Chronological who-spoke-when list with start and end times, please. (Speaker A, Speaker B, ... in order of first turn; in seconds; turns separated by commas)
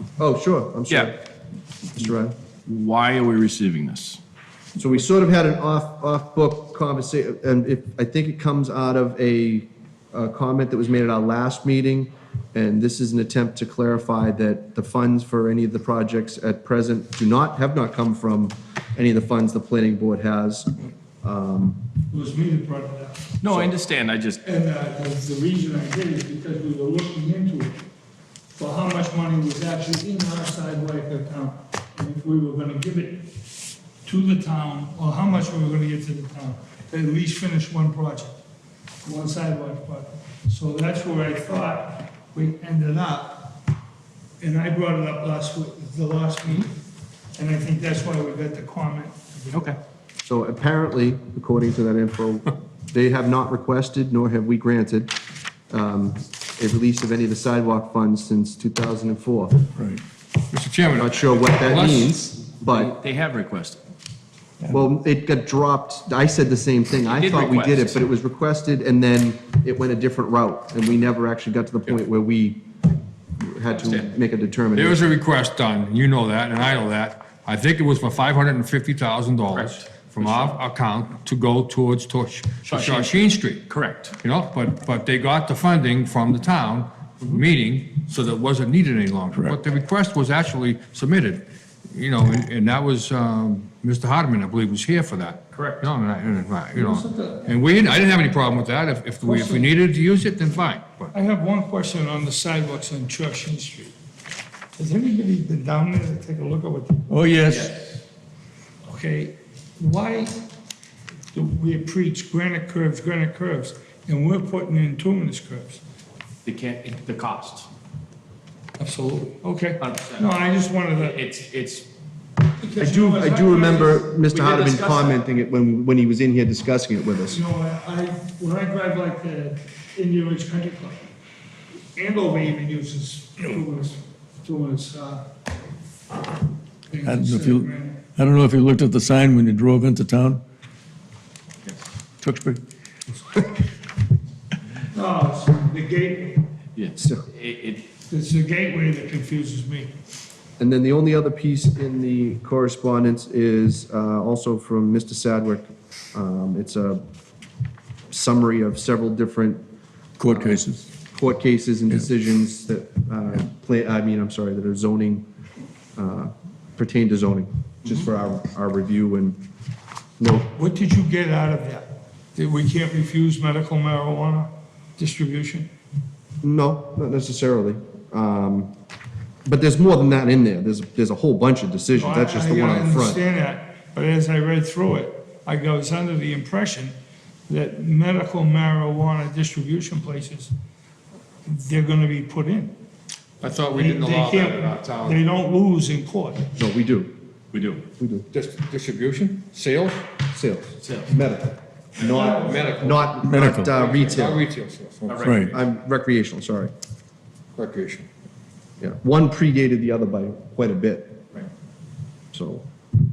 Speaker A: 0.2-1.2, Speaker A: 1.9-2.4, Speaker B: 2.7-4.2, Speaker A: 4.8-21.8, Speaker C: 22.1-23.3, Speaker B: 23.4-24.4, Speaker C: 24.4-27.8, Speaker C: 28.6-33.3, Speaker C: 34.0-38.4, Speaker C: 39.0-43.6, Speaker C: 44.4-46.8, Speaker C: 47.4-49.8, Speaker B: 49.5-49.8, Speaker A: 50.2-55.1, Speaker A: 55.7-59.6, Speaker D: 60.5-62.2, Speaker A: 61.0-62.9, Speaker B: 62.7-63.8, Speaker A: 64.7-72.6, Speaker B: 67.1-68.1, Speaker A: 73.4-75.1, Speaker B: 73.7-74.1, Speaker D: 74.8-83.7, Speaker B: 79.5-80.6, Speaker B: 82.7-84.2, Speaker D: 84.2-101.1, Speaker B: 95.5-95.8, Speaker C: 96.7-97.8, Speaker C: 99.2-99.7, Speaker C: 101.1-103.9, Speaker C: 104.8-107.2, Speaker E: 107.1-107.7, Speaker B: 107.5-108.0, Speaker C: 108.9-110.4, Speaker C: 111.3-115.8, Speaker B: 116.5-117.7, Speaker C: 118.8-121.2, Speaker B: 119.8-120.3, Speaker B: 121.0-121.9, Speaker C: 122.6-124.1, Speaker A: 122.8-127.4, Speaker B: 124.3-125.2, Speaker C: 127.3-131.0, Speaker C: 131.9-135.2, Speaker C: 136.9-138.0, Speaker E: 137.1-140.4, Speaker E: 142.2-142.6, Speaker C: 144.8-146.5, Speaker B: 146.8-147.8, Speaker A: 147.0-147.2, Speaker C: 148.1-149.9, Speaker A: 150.6-157.0, Speaker A: 158.1-159.6, Speaker E: 160.2-160.8, Speaker A: 160.3-165.2, Speaker A: 166.0-169.4, Speaker A: 170.2-170.5, Speaker C: 170.6-175.7, Speaker A: 176.4-178.7, Speaker A: 179.4-183.2, Speaker C: 182.0-186.9, Speaker C: 187.5-190.5, Speaker C: 191.4-192.8, Speaker D: 193.4-195.2, Speaker C: 193.7-196.5, Speaker A: 196.6-197.1, Speaker B: 197.5-197.8, Speaker A: 198.0-198.2, Speaker D: 198.3-200.1, Speaker A: 200.3-204.4, Speaker B: 200.8-201.1, Speaker D: 202.0-205.4, Speaker E: 203.2-203.7, Speaker B: 205.1-205.6, Speaker E: 205.2-205.5, Speaker A: 205.4-206.7, Speaker D: 207.6-208.1, Speaker A: 208.8-211.2, Speaker A: 212.3-212.7